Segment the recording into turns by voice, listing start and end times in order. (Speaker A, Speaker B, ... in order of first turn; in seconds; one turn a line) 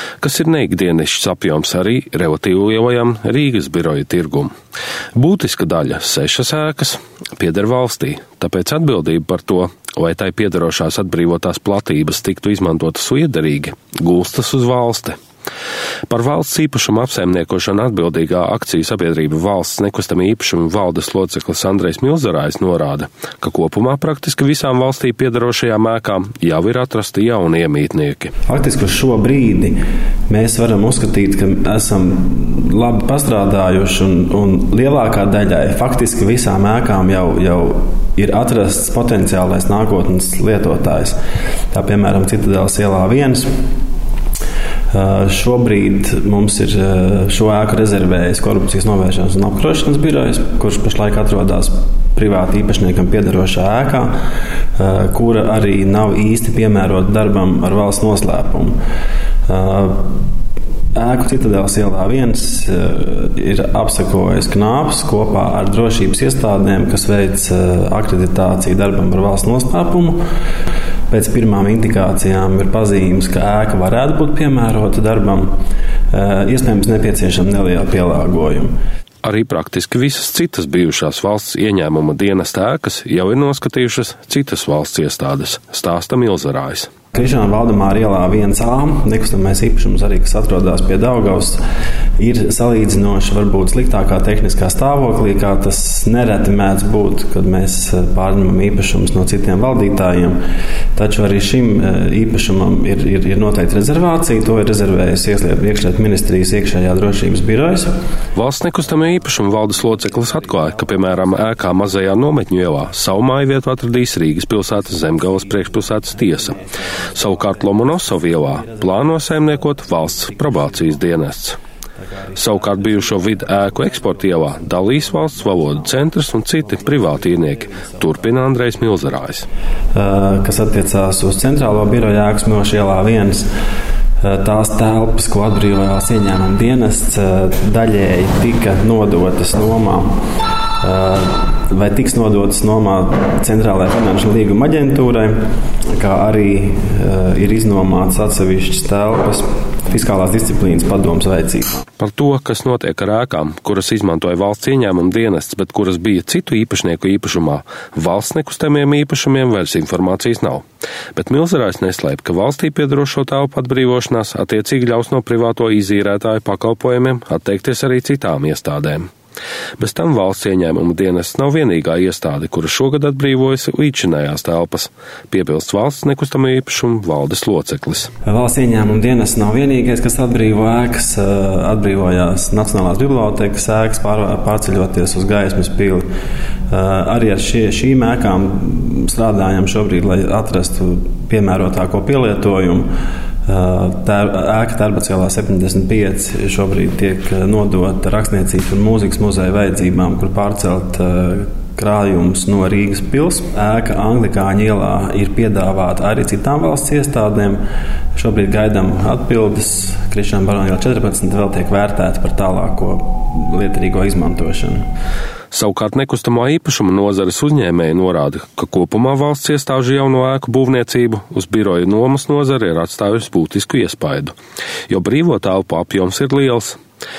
Speaker A: 0.2-4.5
Speaker A: 5.2-15.2
Speaker A: 16.1-28.3
Speaker B: 28.5-29.8
Speaker B: 30.3-41.2
Speaker B: 41.7-43.5
Speaker B: 44.9-54.1
Speaker B: 54.8-58.8
Speaker B: 59.5-60.0
Speaker B: 61.0-70.2
Speaker B: 71.1-75.5
Speaker B: 76.1-78.7
Speaker A: 79.2-86.9
Speaker B: 87.1-91.6
Speaker B: 92.2-100.4
Speaker B: 101.0-107.9
Speaker A: 108.3-116.6
Speaker B: 108.9-113.2
Speaker B: 114.8-121.2
Speaker A: 117.1-121.6
Speaker B: 122.0-126.1
Speaker A: 122.4-129.5
Speaker B: 126.6-128.5
Speaker B: 129.9-133.5
Speaker B: 134.2-140.1
Speaker B: 140.8-145.3
Speaker B: 145.9-151.8
Speaker A: 152.0-169.1
Speaker A: 169.8-178.1
Speaker B: 178.3-186.0
Speaker B: 186.7-192.9
Speaker B: 193.5-207.6
Speaker B: 208.2-214.8
Speaker A: 215.5-224.3
Speaker A: 224.9-226.8